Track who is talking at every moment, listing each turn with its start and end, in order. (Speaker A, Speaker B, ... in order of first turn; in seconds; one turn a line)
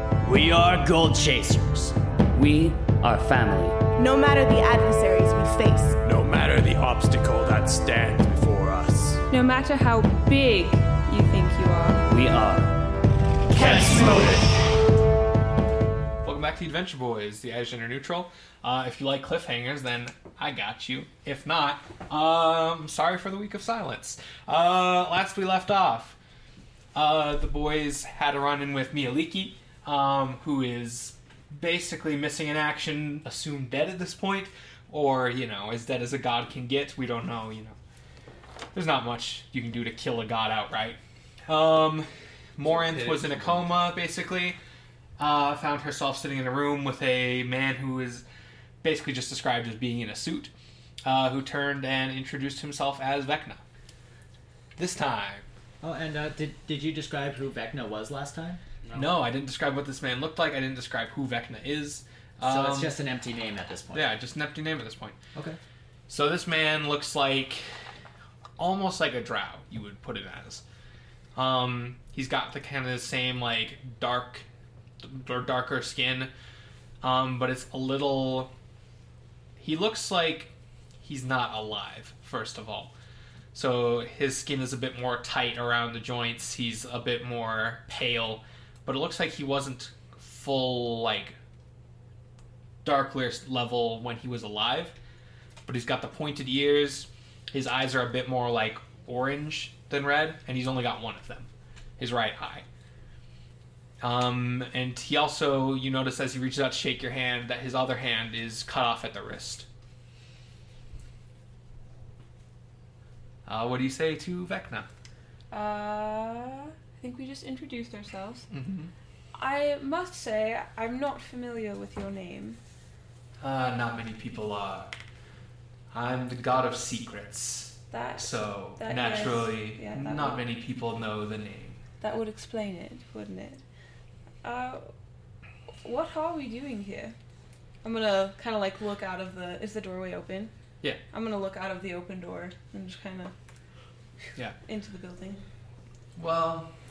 Speaker A: 0.3-1.9
Speaker B: 2.3-3.8
Speaker C: 4.0-6.0
Speaker D: 6.0-9.2
Speaker E: 9.3-12.1
Speaker B: 12.1-12.7
Speaker E: 13.5-14.5
Speaker D: 13.5-14.5
Speaker F: 13.7-14.3
Speaker F: 16.2-26.2
Speaker F: 26.9-37.8
Speaker F: 38.7-44.6
Speaker D: 42.8-43.7
Speaker F: 45.2-48.2
Speaker F: 48.8-50.5
Speaker F: 51.0-53.6
Speaker F: 54.8-55.5
Speaker A: 55.8-58.6
Speaker B: 58.8-59.2
Speaker F: 58.9-63.0
Speaker A: 62.4-64.1
Speaker F: 63.9-65.2
Speaker F: 66.1-67.7
Speaker F: 68.6-70.6
Speaker F: 71.3-74.5
Speaker F: 75.0-76.3
Speaker F: 77.0-78.5
Speaker F: 79.6-82.9
Speaker F: 83.5-91.4
Speaker F: 92.8-95.0
Speaker F: 95.7-102.7
Speaker F: 104.0-109.7
Speaker F: 113.5-114.9
Speaker E: 115.5-118.5
Speaker F: 118.5-118.9
Speaker E: 119.3-122.6
Speaker F: 123.4-125.0
Speaker F: 125.9-131.8
Speaker E: 127.9-130.4
Speaker E: 132.0-133.6
Speaker E: 134.4-134.9
Speaker E: 135.8-137.1
Speaker E: 137.8-140.5
Speaker E: 141.1-143.3
Speaker E: 144.6-145.4
Speaker F: 146.2-146.8